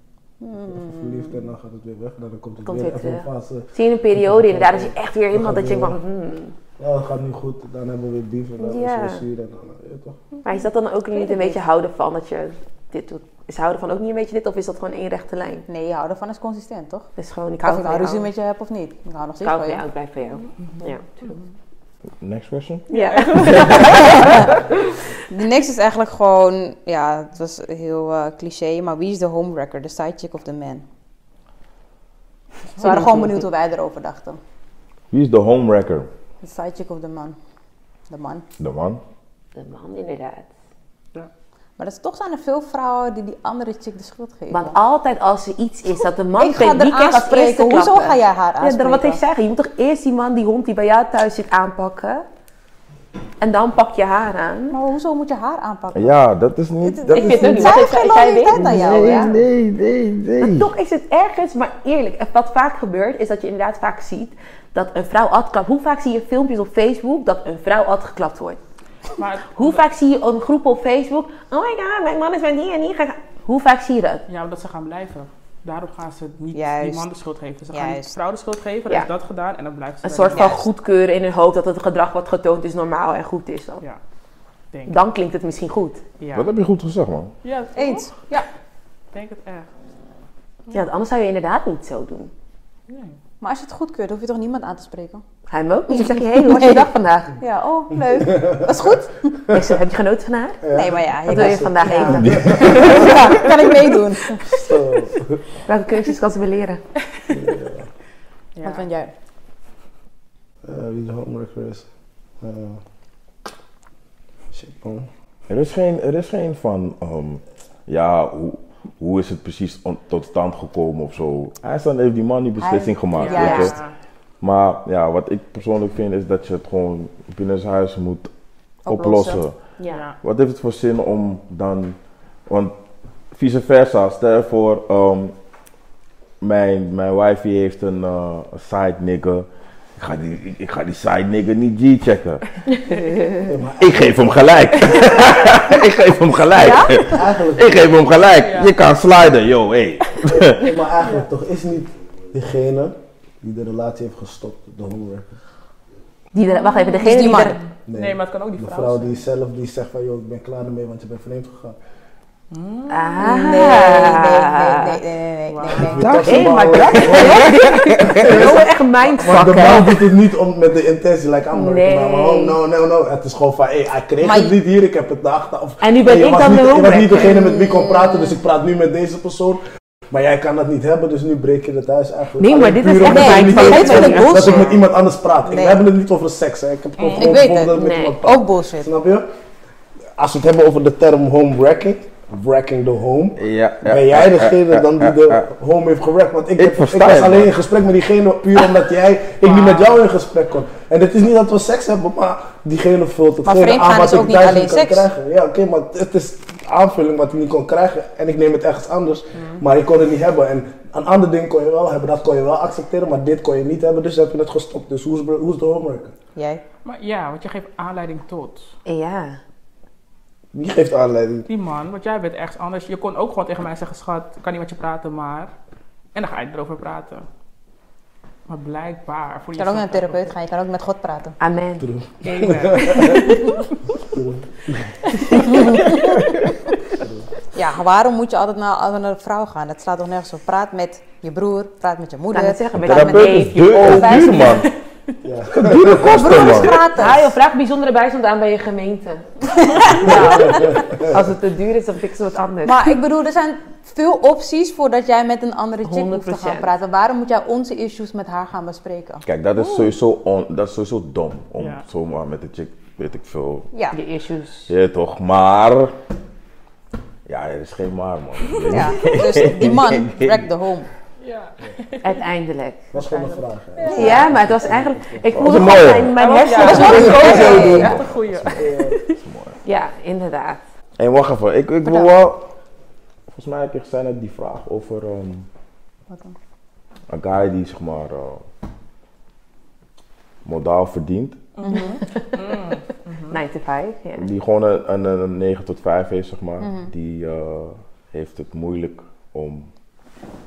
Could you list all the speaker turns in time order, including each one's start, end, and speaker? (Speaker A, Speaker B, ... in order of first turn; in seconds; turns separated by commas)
Speaker A: 0.4-1.4, Speaker B: 0.6-6.0, Speaker C: 2.6-6.5, Speaker B: 6.8-10.2, Speaker C: 8.6-9.2, Speaker C: 10.4-15.7, Speaker A: 11.1-11.6, Speaker A: 15.7-17.1, Speaker C: 17.2-18.3, Speaker A: 17.6-19.9, Speaker C: 19.4-21.4, Speaker D: 20.6-21.4, Speaker E: 22.2-24.3, Speaker C: 22.9-24.5, Speaker D: 22.9-24.5, Speaker A: 25.3-30.9, Speaker A: 32.8-34.4, Speaker C: 32.8-33.1, Speaker E: 35.1-36.1, Speaker A: 36.4-37.4, Speaker A: 38.1-38.5, Speaker E: 38.6-39.0, Speaker C: 39.5-40.5, Speaker A: 41.8-44.8, Speaker C: 44.5-52.3, Speaker A: 46.4-49.2, Speaker C: 53.4-54.8, Speaker A: 54.7-56.2, Speaker E: 55.9-60.7, Speaker A: 56.8-59.4, Speaker C: 57.1-59.4, Speaker C: 60.4-68.6, Speaker D: 69.2-69.8, Speaker C: 69.5-74.2, Speaker D: 74.3-80.6, Speaker A: 76.5-77.1, Speaker A: 77.7-78.2, Speaker C: 80.0-83.8, Speaker A: 80.3-80.7, Speaker C: 84.9-86.0, Speaker D: 86.2-86.5, Speaker E: 86.3-87.3, Speaker D: 87.4-88.1, Speaker A: 87.8-88.5, Speaker D: 89.1-89.7, Speaker C: 90.7-92.3, Speaker A: 93.4-95.2, Speaker C: 95.5-97.4, Speaker A: 95.9-99.5, Speaker B: 98.2-98.7, Speaker C: 99.5-100.7, Speaker B: 100.6-103.0, Speaker A: 100.7-104.4, Speaker C: 101.2-103.2, Speaker E: 102.1-103.5, Speaker B: 104.5-105.4, Speaker C: 105.7-106.8, Speaker B: 107.3-107.9, Speaker D: 108.6-108.8, Speaker A: 108.6-109.1, Speaker B: 110.6-111.9, Speaker B: 112.4-112.8, Speaker B: 114.5-115.1, Speaker E: 115.5-123.8, Speaker A: 122.6-123.8, Speaker D: 123.2-123.9, Speaker C: 123.3-123.7, Speaker E: 124.4-128.3, Speaker E: 128.9-129.6, Speaker C: 128.9-130.0, Speaker A: 129.1-129.4, Speaker D: 129.9-130.2, Speaker E: 130.2-132.8, Speaker E: 133.3-135.3, Speaker E: 136.4-142.4, Speaker C: 142.7-143.5, Speaker B: 143.4-144.9, Speaker E: 143.8-150.7, Speaker C: 146.6-147.0, Speaker B: 147.1-147.8, Speaker D: 148.4-148.8, Speaker B: 150.3-155.3, Speaker C: 156.3-157.6, Speaker A: 157.0-157.6, Speaker D: 157.2-159.2, Speaker B: 157.9-161.8, Speaker D: 162.5-164.0, Speaker C: 162.9-165.0, Speaker A: 163.2-166.2, Speaker D: 165.5-165.9, Speaker B: 165.7-167.5, Speaker E: 166.0-168.6, Speaker C: 166.2-170.0, Speaker B: 168.0-189.3, Speaker E: 169.3-169.8, Speaker C: 171.5-172.6, Speaker A: 174.2-174.6, Speaker C: 175.8-177.3, Speaker A: 177.2-178.4, Speaker C: 182.4-184.7, Speaker A: 183.0-184.8, Speaker A: 185.5-185.8, Speaker A: 187.0-188.9, Speaker C: 187.7-188.2, Speaker B: 190.2-216.2, Speaker E: 193.4-195.5, Speaker E: 196.6-197.5, Speaker D: 199.4-200.0, Speaker A: 203.4-205.1, Speaker A: 216.4-216.6, Speaker D: 216.8-218.7, Speaker C: 218.9-219.4, Speaker B: 220.5-221.5, Speaker D: 221.5-225.5, Speaker D: 226.2-227.3, Speaker D: 228.5-230.3, Speaker A: 229.6-231.4, Speaker C: 231.4-231.9, Speaker B: 231.8-233.3, Speaker D: 232.2-233.7, Speaker B: 234.1-235.0, Speaker D: 235.2-235.9, Speaker A: 235.5-236.2, Speaker B: 237.0-237.3, Speaker A: 237.5-244.4, Speaker C: 242.3-244.7, Speaker E: 242.8-244.7, Speaker B: 245.2-246.4, Speaker E: 245.5-246.8, Speaker A: 246.0-247.3, Speaker C: 246.9-253.0, Speaker A: 249.5-250.6, Speaker B: 250.4-250.9, Speaker A: 252.7-259.9, Speaker C: 255.8-256.7, Speaker E: 259.2-263.7, Speaker D: 261.6-261.8, Speaker C: 263.9-264.7, Speaker E: 264.7-265.9, Speaker E: 267.3-270.5, Speaker A: 268.7-270.9, Speaker D: 271.2-272.2, Speaker C: 272.0-272.8, Speaker B: 272.9-275.4, Speaker D: 272.9-274.2, Speaker A: 273.9-274.2, Speaker C: 273.9-277.9, Speaker E: 275.3-276.2, Speaker D: 276.1-279.2, Speaker A: 276.6-278.0, Speaker E: 276.7-279.6, Speaker B: 278.5-279.0, Speaker C: 279.6-280.6, Speaker E: 281.0-282.5, Speaker A: 281.8-282.1, Speaker E: 283.3-285.5, Speaker A: 286.1-286.4, Speaker E: 287.1-288.4, Speaker E: 290.4-291.4, Speaker D: 291.6-293.4, Speaker A: 291.6-292.0, Speaker C: 292.0-292.3, Speaker C: 293.3-294.3, Speaker E: 294.2-299.7, Speaker A: 296.6-296.9